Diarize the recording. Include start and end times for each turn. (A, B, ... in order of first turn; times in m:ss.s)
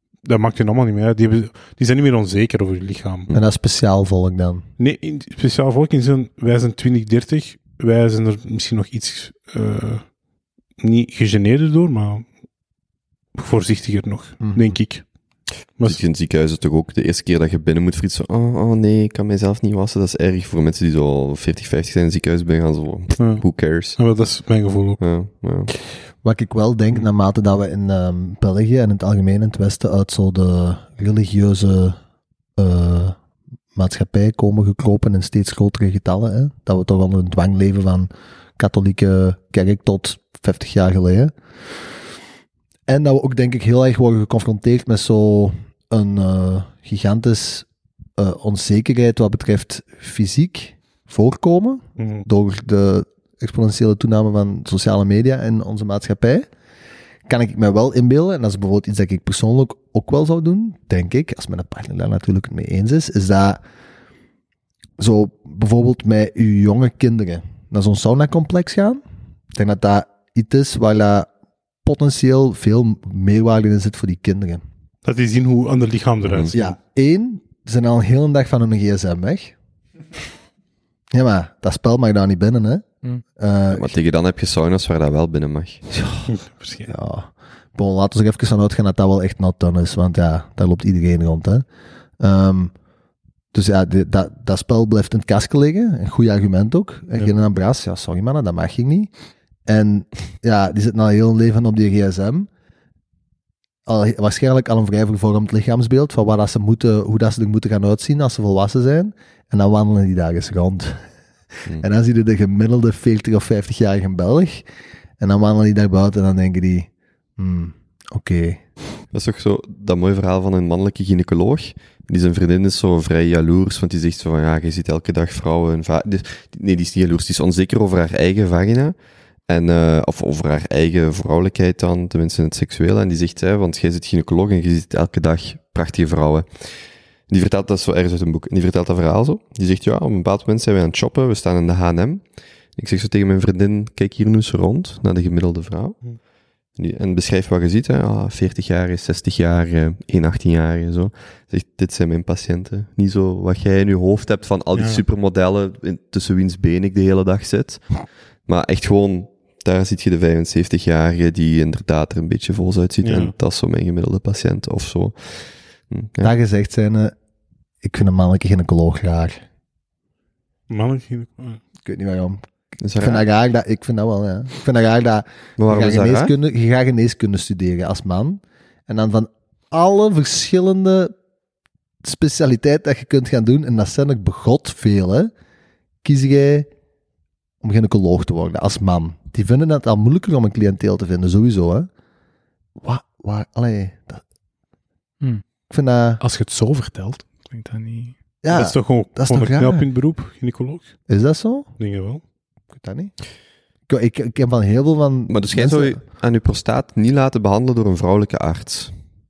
0:00.2-0:03.3 A
0:03.3-0:04.6 B
0:04.8-0:10.1 A
0:10.8-0:12.3 A
0:13.3-0:16.0 A
0:14.4-0:14.8 B
0:15.8-0:24.0 C
0:23.2-0:25.0 A
0:25.0-0:25.7 C
0:26.2-0:32.0 B
0:32.6-0:33.2 B
0:33.8-0:41.3 B
0:42.9-0:56.5 B
0:52.0-0:52.2 A
0:57.3-1:03.6 B
1:05.0-1:09.0 B
1:09.5-1:11.3 B
1:11.8-1:14.6 B
1:15.0-1:16.8 A
1:16.2-1:16.5 C
1:16.5-1:19.6 B
1:21.1-1:22.9 B
1:23.4-1:23.9 B
1:23.7-1:25.9 C
1:26.0-1:26.3 B
1:26.4-1:26.9 A
1:26.8-1:31.7 B
1:32.2-1:32.8 B
1:33.5-1:39.1 B
1:39.7-1:42.5 B
1:43.9-1:51.0 B
1:51.8-1:54.6 B
1:55.2-1:58.6 B
1:59.1-2:09.0 C
2:09.5-2:26.2 C
2:26.8-2:46.3 C
2:34.8-2:35.0 A
2:43.0-2:43.3 A
2:46.2-2:47.2 B
2:47.8-2:49.4 B
2:50.7-2:51.6 A
2:51.8-2:52.4 B
2:52.8-2:53.3 C
2:53.0-3:01.1 B
2:55.6-2:56.3 C
3:02.0-3:05.3 B
3:06.0-3:06.7 B
3:07.6-3:11.9 B
3:12.8-3:14.2 B
3:15.7-3:16.2 B
3:16.2-3:18.2 D
3:18.4-3:19.8 B
3:18.5-3:21.0 A
3:21.1-3:21.7 B
3:21.8-3:22.2 A
3:22.7-3:23.1 B
3:23.9-3:26.0 B
3:25.3-3:29.0 C